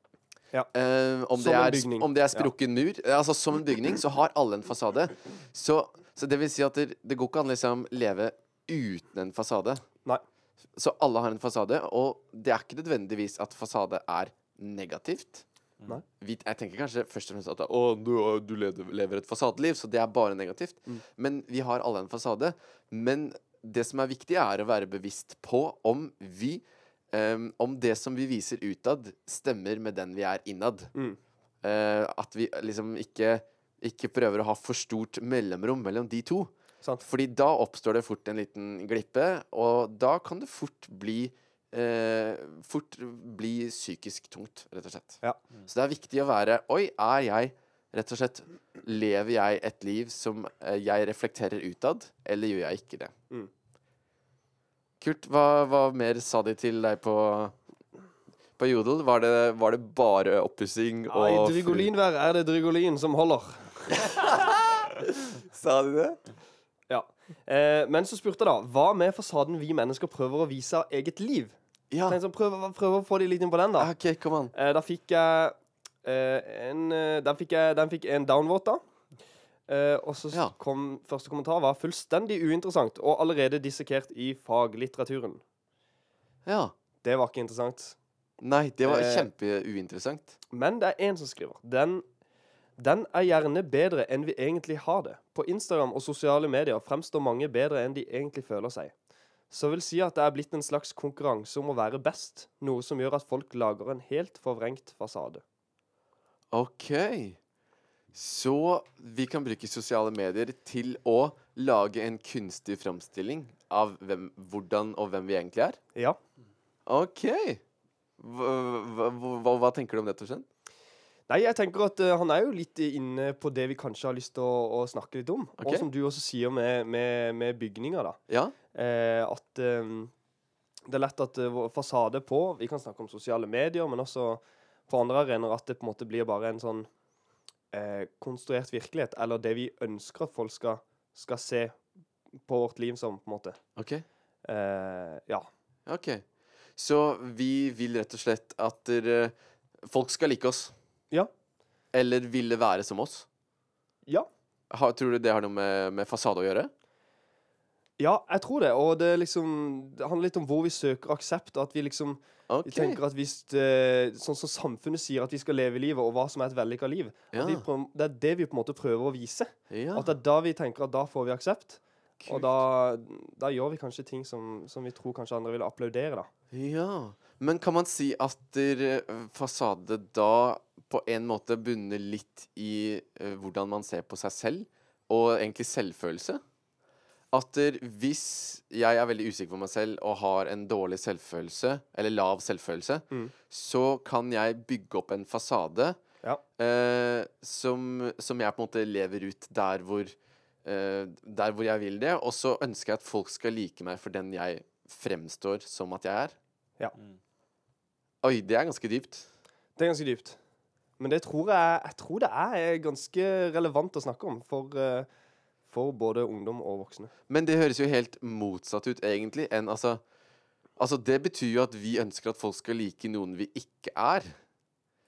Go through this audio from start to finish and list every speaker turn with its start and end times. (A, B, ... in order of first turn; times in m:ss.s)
0:00.7-0:09.8 A
0:01.3-0:02.5 B
0:10.8-0:15.4 A
0:16.2-0:30.9 A
0:31.6-0:53.1 A
0:55.0-0:57.6 A
0:58.6-1:01.9 A
1:01.1-1:04.1 B
1:03.9-1:06.2 A
1:06.9-1:13.9 B
1:11.9-1:12.2 A
1:13.8-1:14.5 A
1:14.5-1:18.8 B
1:19.7-1:25.4 B
1:26.5-1:26.7 A
1:27.0-1:28.0 B
1:28.4-1:30.4 A
1:28.9-1:29.3 B
1:30.5-1:32.0 B
1:32.8-1:38.9 B
1:39.5-1:45.4 B
1:46.5-1:47.4 A
1:48.1-1:55.8 A
1:56.9-1:57.6 A
1:58.2-2:00.5 A
2:01.3-2:08.2 B
2:05.6-2:05.9 A
2:08.3-2:08.6 A
2:08.7-2:10.1 B
2:10.9-2:16.9 B
2:17.7-2:21.8 B
2:22.5-2:23.6 B
2:23.8-2:24.0 A
2:24.4-2:25.5 B
2:25.9-2:26.2 A
2:26.8-2:30.7 A
2:31.9-2:33.3 A
2:34.7-2:36.7 A
2:38.0-2:56.3 B
2:42.5-2:43.0 A
2:47.3-2:47.7 A
2:49.7-2:50.1 A
2:52.2-2:52.6 A
2:56.5-3:06.4 A
3:07.3-3:16.0 A
3:16.6-3:26.4 A
3:28.2-3:29.3 A
3:29.8-3:30.4 B
3:31.0-3:35.1 B
3:35.7-3:37.1 B
3:37.3-3:40.0 A
3:40.8-3:44.3 A